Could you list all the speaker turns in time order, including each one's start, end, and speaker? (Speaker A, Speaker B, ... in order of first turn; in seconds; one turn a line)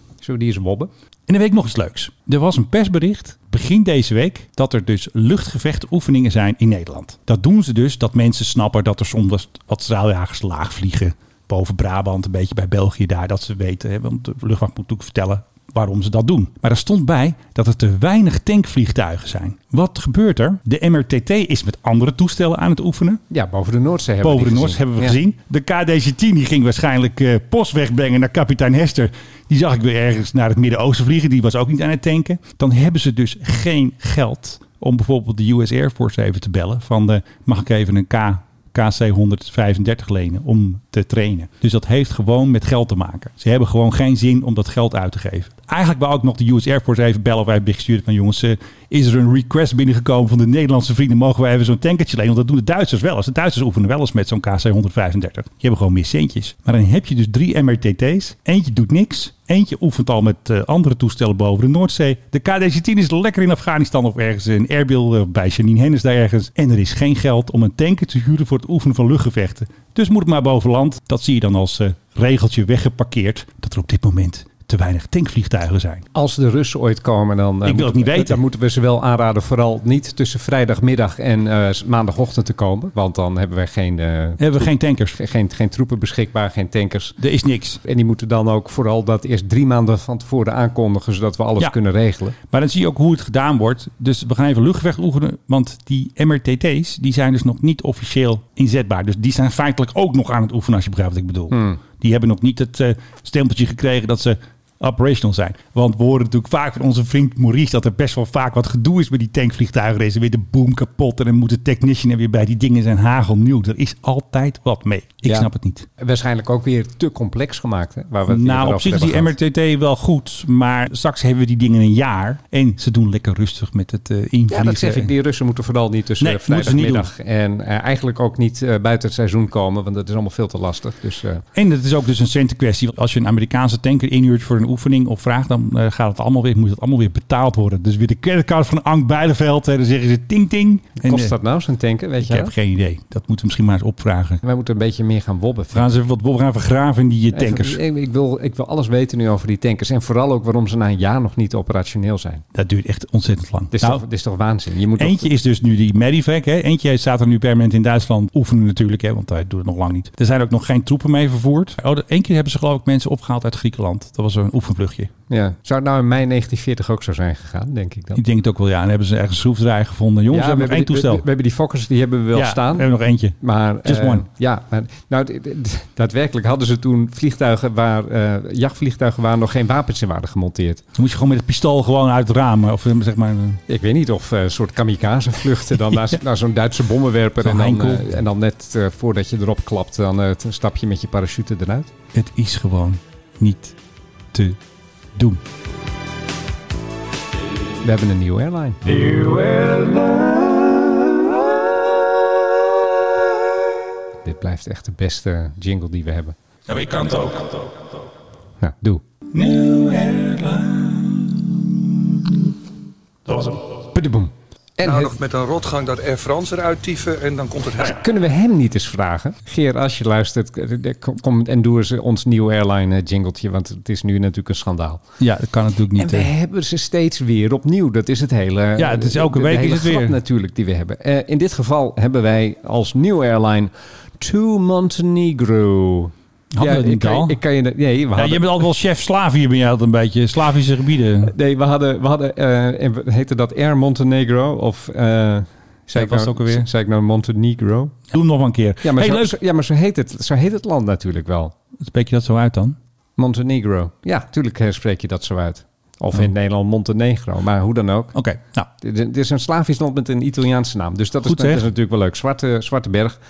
Speaker A: 0.2-0.9
Speaker B: 1.3-23.2
Speaker A: 23.3-25.2
Speaker B: 24.2-76.0
Speaker A: 76.1-87.2
Speaker B: 77.6-78.4
Speaker B: 84.4-85.2
Speaker B: 87.2-87.8
Speaker A: 87.8-92.3
Speaker B: 92.4-115.9
Speaker A: 101.5-101.8
Speaker A: 115.2-119.3
Speaker B: 118.3-125.1
Speaker A: 124.5-131.4
Speaker B: 126.2-127.1
Speaker B: 131.5-141.3
Speaker A: 141.0-142.5
Speaker B: 142.2-144.4
Speaker A: 144.4-145.9
Speaker B: 145.7-147.8
Speaker A: 147.3-152.4
Speaker B: 152.5-154.0
Speaker A: 153.7-155.3
Speaker B: 154.9-165.1
Speaker A: 165.3-168.2
Speaker B: 168.1-171.2
Speaker A: 170.3-180.8
Speaker B: 172.3-174.2
Speaker B: 180.9-183.6
Speaker A: 183.7-191.9
Speaker B: 187.4-188.2
Speaker B: 192.1-193.7
Speaker B: 194.3-194.6
Speaker B: 195.2-195.4
Speaker A: 197.8-199.8
Speaker A: 204.2-206.3
Speaker B: 206.7-207.8
Speaker A: 208.6-209.0
Speaker B: 209.3-211.9
Speaker B: 213.3-213.6
Speaker A: 213.9-215.2
Speaker C: 214.8-217.9
Speaker A: 217.8-225.0
Speaker B: 225.2-226.3
Speaker A: 226.0-238.7
Speaker B: 228.8-230.2
Speaker B: 236.5-237.4
Speaker B: 238.1-241.3
Speaker A: 241.2-248.0
Speaker B: 245.9-246.7
Speaker B: 248.1-249.3
Speaker A: 248.8-251.5
Speaker B: 251.8-252.8
Speaker A: 253.2-258.1
Speaker B: 258.1-258.7
Speaker A: 258.8-263.2
Speaker B: 261.2-261.6